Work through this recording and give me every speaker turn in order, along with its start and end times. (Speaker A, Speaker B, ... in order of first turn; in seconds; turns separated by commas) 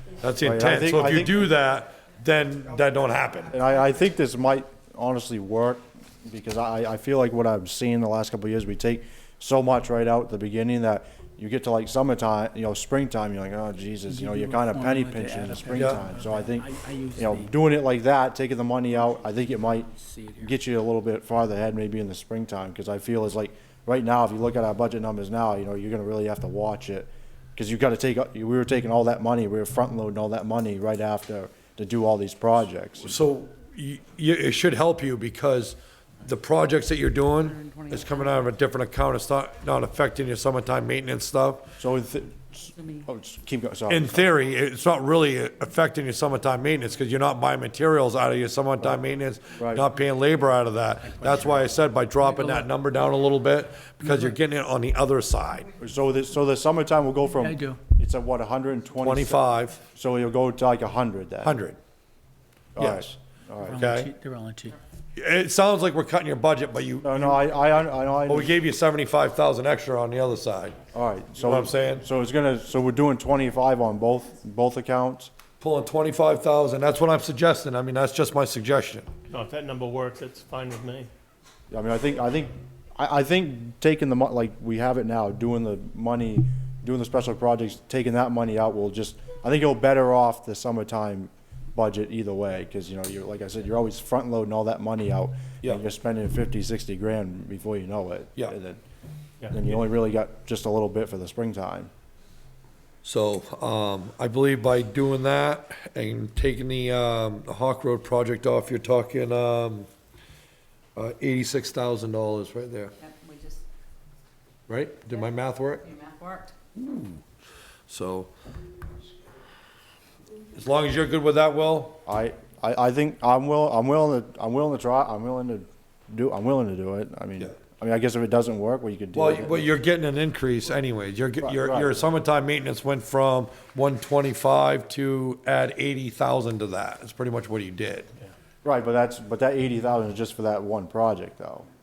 Speaker A: 0.2-3.6, Speaker B: 0.4-1.5, Speaker B: 3.5-33.2, Speaker C: 14.1-17.5, Speaker C: 19.6-20.5, Speaker A: 33.0-41.7, Speaker D: 37.3-38.6, Speaker B: 41.8-44.3, Speaker D: 42.7-43.1, Speaker A: 43.9-55.7, Speaker B: 49.5-49.9, Speaker C: 51.0-52.7, Speaker C: 54.0-54.4, Speaker B: 55.8-61.6, Speaker C: 57.3-57.8, Speaker A: 59.0-59.8, Speaker A: 61.4-61.8, Speaker B: 62.8-63.9, Speaker A: 62.8-63.1, Speaker C: 63.6-64.8, Speaker A: 63.7-64.1, Speaker A: 65.2-67.5, Speaker B: 67.0-68.5, Speaker A: 68.3-70.8, Speaker B: 70.9-75.3, Speaker A: 71.4-72.0, Speaker A: 75.6-79.1, Speaker E: 79.3-81.1, Speaker B: 81.7-98.8, Speaker E: 99.4-99.8, Speaker B: 99.5-101.9, Speaker A: 103.0-109.9, Speaker A: 110.9-112.9, Speaker D: 113.0-113.6, Speaker A: 114.7-115.8, Speaker D: 115.1-116.5, Speaker A: 116.7-117.2, Speaker A: 117.9-118.3, Speaker A: 120.5-122.0, Speaker B: 122.0-129.7, Speaker A: 129.1-138.1, Speaker B: 131.4-132.1, Speaker B: 138.6-141.7